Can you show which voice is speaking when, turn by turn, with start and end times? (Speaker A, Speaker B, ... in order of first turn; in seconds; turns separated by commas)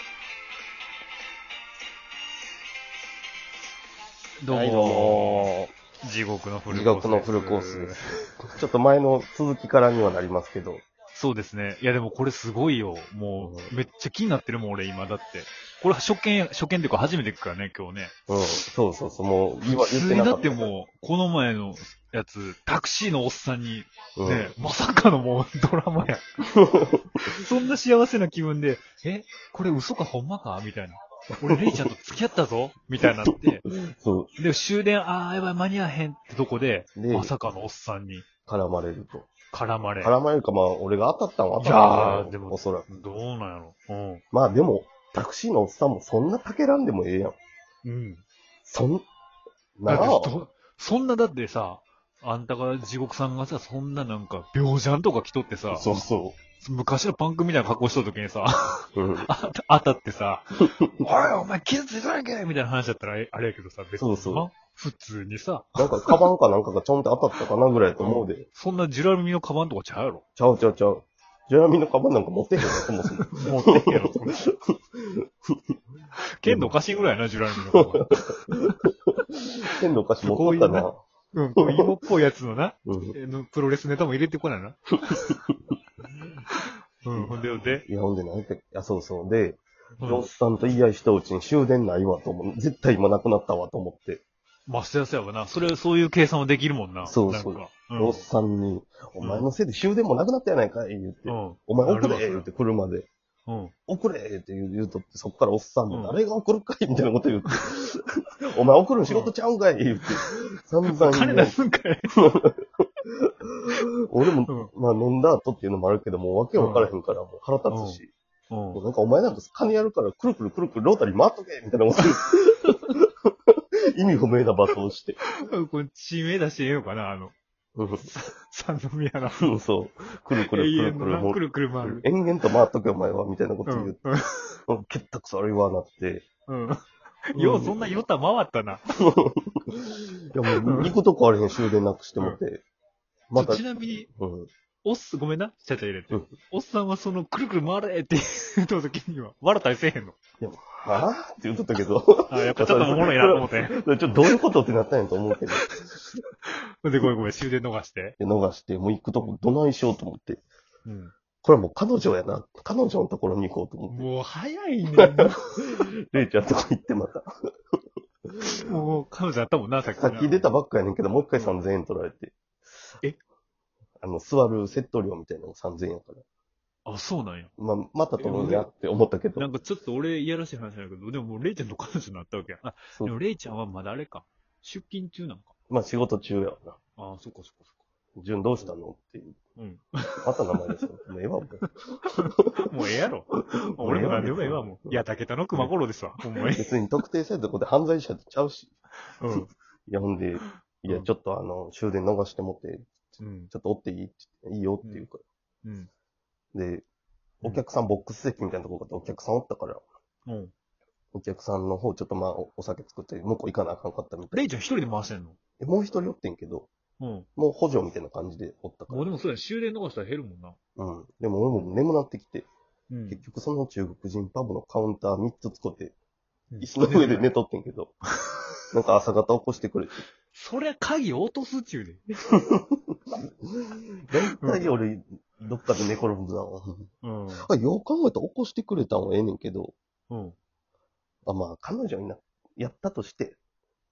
Speaker A: 4.4-8.1, Speaker B: 4.5-5.7, Speaker B: 6.7-10.8, Speaker A: 11.1-18.1, Speaker B: 13.4-13.7, Speaker B: 18.3-20.6, Speaker A: 19.6-26.2, Speaker B: 24.2-24.5, Speaker B: 26.5-27.3, Speaker A: 27.2-33.6, Speaker B: 31.4-31.9, Speaker B: 33.0-34.3, Speaker A: 34.4-38.2, Speaker B: 37.0-37.3, Speaker B: 38.5-39.3, Speaker A: 39.5-40.1, Speaker B: 40.0-42.9, Speaker A: 41.6-44.2, Speaker B: 44.3-47.4, Speaker A: 47.8-48.2, Speaker B: 48.7-49.0, Speaker B: 49.8-50.3, Speaker A: 49.9-55.9, Speaker B: 55.7-56.4, Speaker A: 56.6-66.2, Speaker B: 58.9-59.3, Speaker B: 60.6-61.0, Speaker B: 64.0-64.5, Speaker B: 65.8-68.5, Speaker A: 68.0-70.2, Speaker B: 70.4-75.5, Speaker A: 73.3-74.4, Speaker A: 76.2-78.4, Speaker B: 76.5-76.7, Speaker B: 77.7-81.0, Speaker A: 80.2-85.4, Speaker B: 81.6-81.9, Speaker B: 82.9-83.1, Speaker A: 86.5-87.8, Speaker B: 87.1-94.2, Speaker A: 90.0-90.2, Speaker A: 94.7-98.2, Speaker B: 97.0-103.1, Speaker A: 99.2-99.5, Speaker A: 101.3-102.5, Speaker A: 103.5-103.7, Speaker B: 103.9-111.6, Speaker A: 105.9-106.2, Speaker A: 109.1-109.3, Speaker A: 110.9-112.2, Speaker B: 112.2-112.6, Speaker B: 113.2-118.1, Speaker A: 116.5-116.9, Speaker A: 117.7-118.8, Speaker B: 118.7-125.2, Speaker A: 125.3-127.3, Speaker B: 127.8-128.1, Speaker A: 128.0-129.5, Speaker B: 129.4-134.0, Speaker A: 130.3-132.0, Speaker A: 133.7-134.6, Speaker B: 134.7-136.2, Speaker A: 136.5-138.8, Speaker B: 137.3-137.8, Speaker B: 139.0-142.6, Speaker A: 140.5-140.9, Speaker B: 143.3-143.6, Speaker A: 143.3-144.1, Speaker B: 144.2-144.5, Speaker A: 144.8-150.2, Speaker B: 150.4-155.7, Speaker A: 152.3-153.8, Speaker A: 155.6-158.2, Speaker B: 158.2-160.4, Speaker A: 159.2-159.5, Speaker A: 160.8-161.1, Speaker B: 161.4-164.1, Speaker A: 163.9-165.8, Speaker B: 165.0-167.3, Speaker A: 168.4-170.5, Speaker B: 170.0-172.3, Speaker B: 174.0-176.2, Speaker A: 176.8-177.5, Speaker B: 177.6-179.5, Speaker A: 178.2-178.7, Speaker A: 179.3-185.5, Speaker B: 185.7-186.8, Speaker A: 187.0-187.7, Speaker B: 188.2-189.3, Speaker A: 189.6-190.2, Speaker B: 190.2-191.7, Speaker A: 191.6-196.7, Speaker B: 193.8-195.0, Speaker B: 196.5-198.7, Speaker A: 199.2-199.5, Speaker B: 199.3-202.9, Speaker A: 200.4-201.1, Speaker A: 203.2-203.5, Speaker B: 203.5-205.2, Speaker A: 205.6-205.9, Speaker B: 206.5-206.8, Speaker B: 207.4-209.8, Speaker A: 210.2-210.5, Speaker B: 211.1-214.4, Speaker A: 214.3-215.4, Speaker B: 215.6-216.7, Speaker A: 217.0-217.3, Speaker B: 217.4-219.1, Speaker A: 218.9-220.6, Speaker B: 220.8-222.5, Speaker A: 222.9-223.2, Speaker B: 223.1-225.9, Speaker A: 226.5-227.3, Speaker B: 226.6-227.9, Speaker B: 228.7-230.0, Speaker A: 230.3-232.0, Speaker B: 232.4-232.8, Speaker B: 233.5-239.7, Speaker A: 234.4-234.7, Speaker A: 237.0-237.5, Speaker A: 240.1-240.3, Speaker B: 241.2-243.4